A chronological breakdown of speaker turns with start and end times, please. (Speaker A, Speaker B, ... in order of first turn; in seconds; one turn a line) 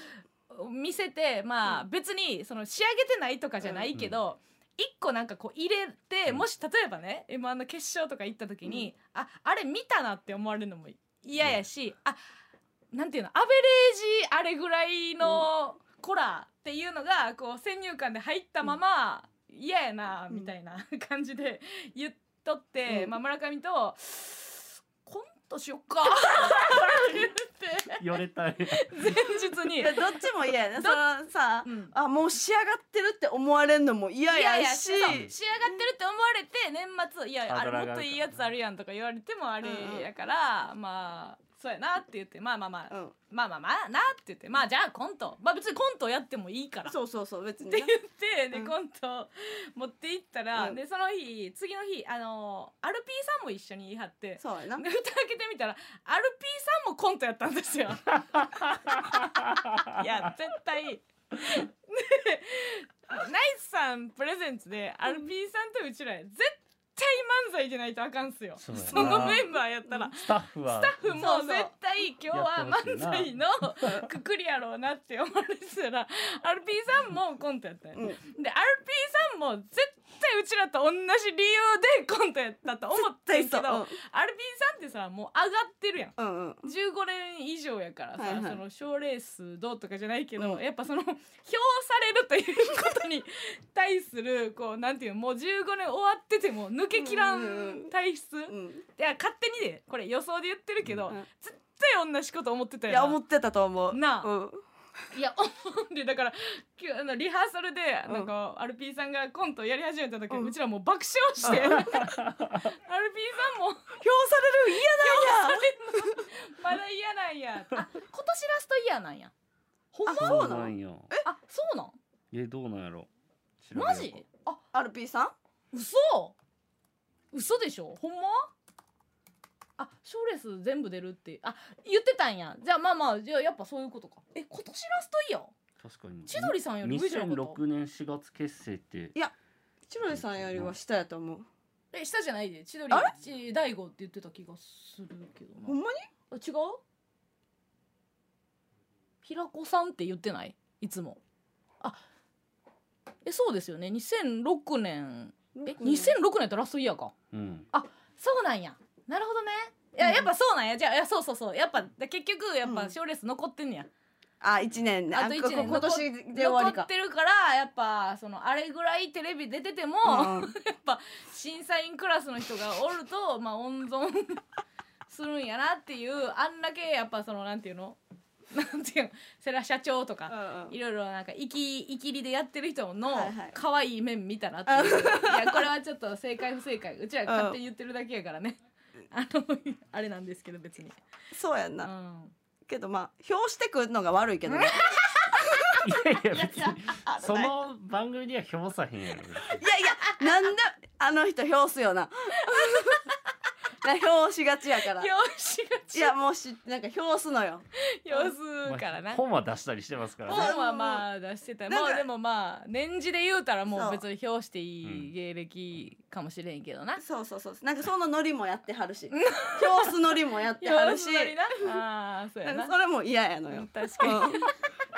Speaker A: 0.5-12.2
Speaker B: 3.6-3.9
Speaker A: 12.9-28.0
Speaker B: 22.9-23.1
Speaker C: 26.7-27.0
Speaker C: 28.0-29.2
Speaker A: 28.8-30.0
Speaker B: 29.8-35.3
Speaker A: 31.6-31.9
Speaker A: 34.3-46.9
Speaker C: 37.5-38.4
Speaker B: 39.6-40.1
Speaker B: 42.9-43.1
Speaker B: 46.9-48.0
Speaker A: 47.7-59.2
Speaker B: 54.4-54.8
Speaker A: 59.8-103.2
Speaker C: 68.6-69.5
Speaker B: 68.9-70.1
Speaker C: 70.1-71.2
Speaker B: 71.2-71.7
Speaker C: 72.3-74.0
Speaker B: 82.9-84.0
Speaker B: 86.2-86.7
Speaker B: 88.2-88.6
Speaker B: 97.0-97.9
Speaker B: 98.5-98.8
Speaker B: 102.9-104.6
Speaker A: 103.9-104.3
Speaker A: 105.1-112.2
Speaker B: 111.4-112.1
Speaker C: 112.0-112.6
Speaker A: 112.9-114.0
Speaker B: 114.0-116.2
Speaker A: 114.7-119.3
Speaker A: 119.9-120.6
Speaker B: 120.1-121.2
Speaker C: 120.1-121.1
Speaker A: 121.2-122.0
Speaker C: 122.3-123.1
Speaker C: 123.6-124.2
Speaker A: 123.8-124.6
Speaker B: 124.7-125.3
Speaker A: 125.7-126.3
Speaker A: 127.3-128.5
Speaker A: 129.8-135.5
Speaker C: 135.8-139.2
Speaker A: 136.3-137.6
Speaker B: 139.9-141.5
Speaker C: 140.1-140.7
Speaker A: 141.9-145.8
Speaker B: 145.7-146.1
Speaker A: 146.3-146.8
Speaker A: 149.2-151.2
Speaker A: 153.2-157.1
Speaker B: 155.6-156.1
Speaker C: 157.3-157.7
Speaker A: 157.7-163.9
Speaker B: 160.0-160.3
Speaker B: 162.6-162.9
Speaker B: 164.4-166.9
Speaker A: 165.1-174.4
Speaker B: 170.1-170.5
Speaker A: 175.1-178.0
Speaker A: 178.5-188.6
Speaker B: 180.3-180.8
Speaker B: 183.1-183.6
Speaker B: 184.7-185.7
Speaker B: 187.3-187.6
Speaker A: 189.1-191.0
Speaker B: 191.3-191.9
Speaker A: 191.8-192.3
Speaker B: 192.7-194.9
Speaker A: 194.5-195.8
Speaker C: 195.8-199.6
Speaker B: 196.3-197.5
Speaker B: 199.6-203.0
Speaker A: 202.5-203.1
Speaker B: 203.8-205.1
Speaker A: 204.9-206.1
Speaker B: 205.9-208.3
Speaker A: 208.0-209.2
Speaker C: 208.7-210.5
Speaker B: 210.3-211.1
Speaker A: 210.3-217.0
Speaker B: 211.7-212.1
Speaker B: 213.7-214.0
Speaker C: 214.8-215.1
Speaker B: 217.0-221.8
Speaker A: 219.1-219.9
Speaker A: 220.6-222.7
Speaker B: 222.4-224.5
Speaker A: 223.5-224.5